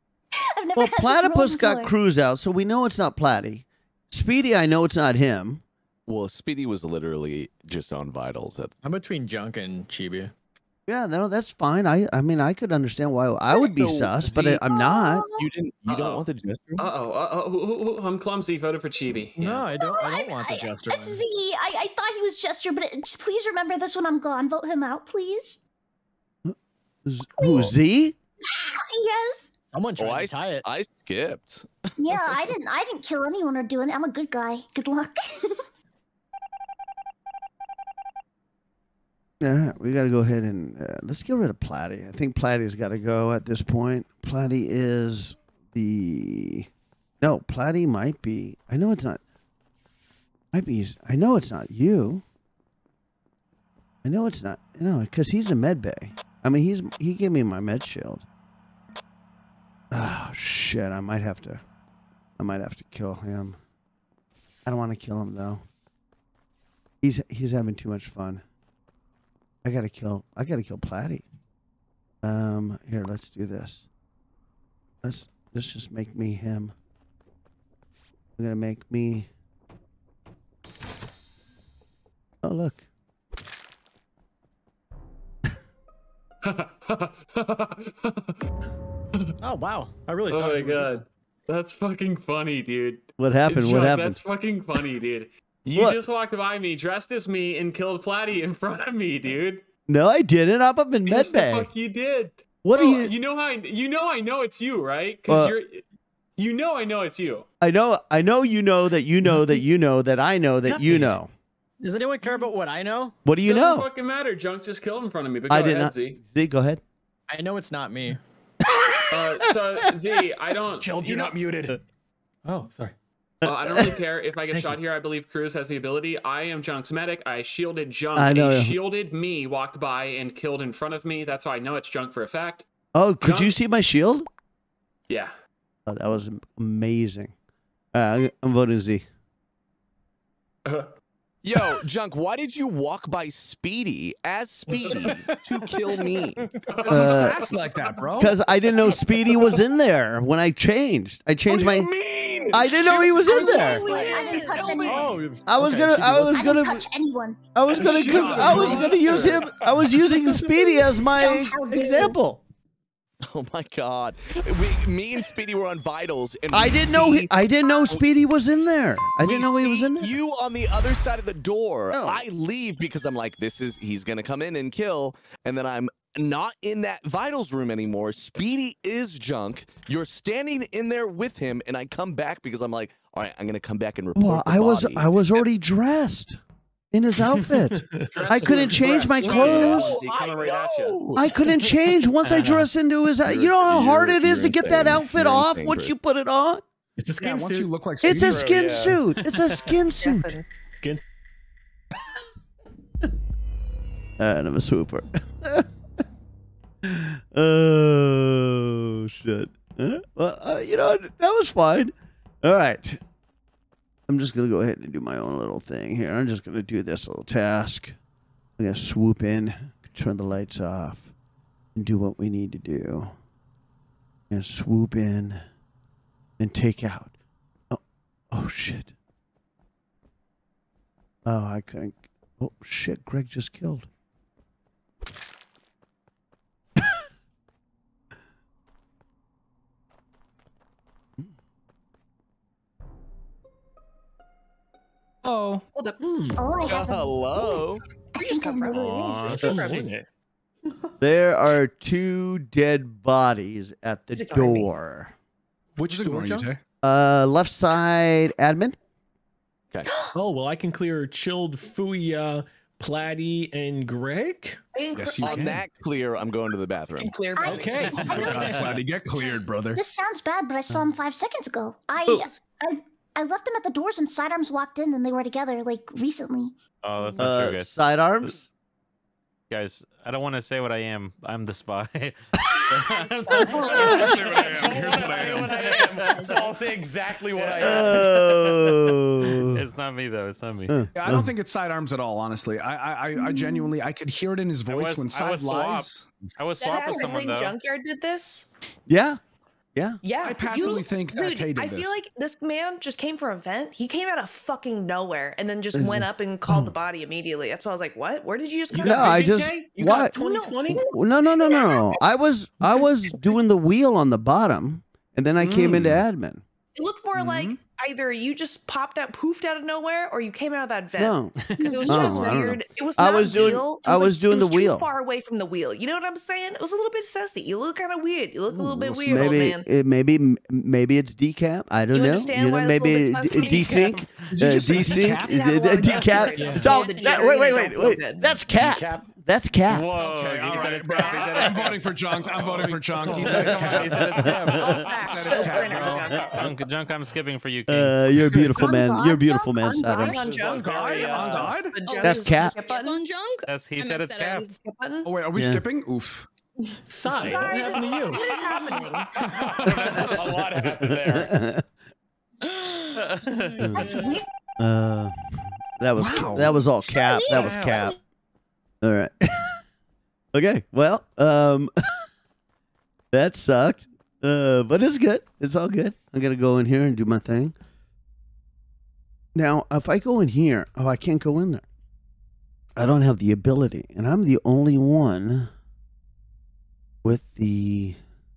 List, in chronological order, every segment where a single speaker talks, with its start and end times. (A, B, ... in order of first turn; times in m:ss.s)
0:00.4-0:01.9 A
0:00.8-0:05.6 B
0:06.0-0:08.8 C
0:08.8-0:10.3 D
0:10.9-0:15.3 B
0:13.8-0:14.6 C
0:14.7-0:15.5 A
0:15.4-0:16.9 C
0:15.9-0:19.6 E
0:19.4-0:21.2 D
0:19.7-0:25.6 A
0:26.4-0:28.1 B
0:27.4-0:27.7 A
0:28.5-0:29.5 A
0:29.7-0:30.7 D
0:30.0-0:31.7 C
0:32.0-0:35.6 A
0:39.4-0:46.7 B
0:47.2-0:49.2 B
0:50.5-0:52.2 B
0:54.0-0:58.2 B
0:59.9-1:01.6 B
1:02.4-1:03.6 B
1:04.6-1:05.6 B
1:07.0-1:08.4 B
1:09.6-1:11.2 B
1:12.2-1:13.9 B
1:15.0-1:16.7 B
1:18.4-1:19.3 B
1:22.4-1:22.8 B
1:26.4-1:28.4 E
1:29.4-1:31.0 D
1:30.3-1:39.6 E
1:33.2-1:34.2 B
1:39.9-1:41.7 B
1:41.0-1:45.8 E
1:42.6-1:43.1 B
1:45.3-1:45.5 B
1:46.4-1:47.4 E
1:47.6-1:51.3 B
1:50.6-1:51.2 D
1:51.8-1:53.2 D
1:53.2-1:53.9 B
1:53.4-1:56.2 E
1:55.5-1:56.8 B
1:57.3-1:58.2 D
1:58.8-1:59.3 B
1:59.1-2:01.4 E
2:00.8-2:01.7 F
2:01.0-2:01.3 G
2:02.4-2:03.0 F
2:03.4-2:04.0 B
2:03.4-2:12.6 E
2:08.1-2:08.8 B
2:12.9-2:14.3 B
2:13.2-2:13.5 E
2:15.8-2:17.3 B
2:17.9-2:19.0 B
2:20.6-2:20.9 E
2:21.4-2:26.4 C
2:26.7-2:27.8 E
2:26.8-2:28.4 H
2:26.9-2:27.4 B
2:28.2-2:31.9 B
2:31.5-2:35.2 C
2:32.5-2:33.9 B
2:33.0-2:35.2 A
2:33.2-2:34.9 I
2:34.3-2:36.5 D
2:35.4-2:36.8 B
2:36.3-2:39.3 A
2:37.5-2:42.4 B
2:37.9-2:39.2 G
2:38.1-2:39.4 E
2:40.3-2:42.2 A
2:43.2-2:47.3 C
2:46.5-2:50.1 B
2:49.2-3:05.2 C
2:51.9-2:52.2 B
3:04.1-3:06.4 B
3:06.9-3:10.0 B
3:07.4-3:08.1 F
3:08.1-3:11.2 E
3:09.2-3:11.4 C
3:11.1-3:16.6 B
3:12.3-3:12.6 F
3:13.2-3:15.9 C
3:17.0-3:17.7 F
3:17.2-3:18.7 H
3:18.0-3:20.4 B
3:18.1-3:19.0 G
3:19.2-3:19.8 F
3:20.0-3:20.4 I
3:24.2-3:25.7 B
3:26.8-3:33.0 B
3:34.1-3:38.0 B
3:38.6-3:41.1 B
3:41.8-3:43.1 B
3:44.3-3:45.4 B
3:46.4-3:47.1 B
3:47.7-3:48.9 B
3:51.2-3:53.9 B
4:05.2-4:06.5 F
4:05.7-4:06.0 I
4:06.4-4:07.5 A
4:06.6-4:06.9 I
4:06.6-4:07.8 C
4:08.1-4:09.4 A
4:08.2-4:09.9 I
4:08.7-4:09.6 J
4:09.4-4:10.1 F
4:11.0-4:15.1 B
4:14.1-4:14.7 I
4:15.8-4:16.5 F
4:15.8-4:16.6 H
4:16.8-4:18.8 B
4:20.1-4:24.6 F
4:24.7-4:25.6 I
4:24.9-4:25.6 H
4:25.2-4:27.3 C
4:27.0-4:28.6 I
4:27.4-4:28.6 A
4:27.4-4:28.8 F
4:27.8-4:29.8 H
4:29.2-4:36.5 A
4:32.0-4:32.3 B
4:36.8-4:37.7 J
4:37.2-4:38.5 B
4:39.5-4:44.6 J
4:43.3-4:43.8 I
4:43.5-4:44.1 A
4:43.6-4:46.3 E
4:43.7-4:45.7 H
4:43.8-4:44.0 G
4:44.6-4:48.2 G
4:45.5-4:46.3 J
4:47.4-4:48.5 E
4:47.6-4:49.6 B
4:49.3-4:50.9 J
4:50.7-4:51.3 B
4:50.9-4:56.1 H
4:54.6-4:57.6 J
4:56.6-4:58.5 I
4:56.8-4:57.2 A
4:58.9-4:59.2 B
4:59.8-5:00.0 B
5:00.0-5:09.4 I
5:00.2-5:02.0 H
5:00.6-5:00.8 A
5:05.7-5:06.7 B
5:08.7-5:10.9 F
5:08.8-5:10.2 B
5:10.2-5:11.9 I
5:10.7-5:16.4 B
5:16.8-5:29.7 I
5:17.2-5:17.6 B
5:21.0-5:24.9 B
5:21.4-5:21.8 J
5:21.6-5:22.5 A
5:28.5-5:39.9 B
5:31.9-5:34.1 I
5:34.3-5:36.6 H
5:34.8-5:38.3 I
5:36.4-5:36.6 D
5:36.6-5:37.8 K
5:38.5-5:39.1 G
5:39.7-5:48.1 J
5:39.9-5:46.4 H
5:40.5-5:41.5 I
5:42.6-5:43.4 F
5:43.1-5:46.6 I
5:43.8-5:44.8 B
5:47.7-5:50.3 B
5:48.2-5:48.6 F
5:48.6-5:50.2 A
5:49.6-5:53.0 I
5:50.1-5:51.5 G
5:50.6-5:51.8 H
5:51.8-5:54.4 K
5:52.0-5:52.6 B
5:53.5-5:54.5 J
5:54.2-5:55.1 I
5:55.0-5:56.2 H
5:55.3-5:55.6 B
5:56.8-5:59.0 F
5:57.2-5:59.8 I
5:58.1-5:58.8 K
5:59.2-6:01.3 G
6:00.1-6:01.6 B
6:02.4-6:03.8 K
6:03.0-6:04.0 J
6:03.6-6:03.9 B
6:03.8-6:04.2 A
6:04.6-6:08.0 B
6:06.0-6:06.6 H
6:06.8-6:08.0 A
6:08.8-6:09.6 B
6:10.3-6:11.7 B
6:13.1-6:17.5 B
6:19.3-6:21.6 B
6:22.8-6:25.5 B
6:27.0-6:28.0 B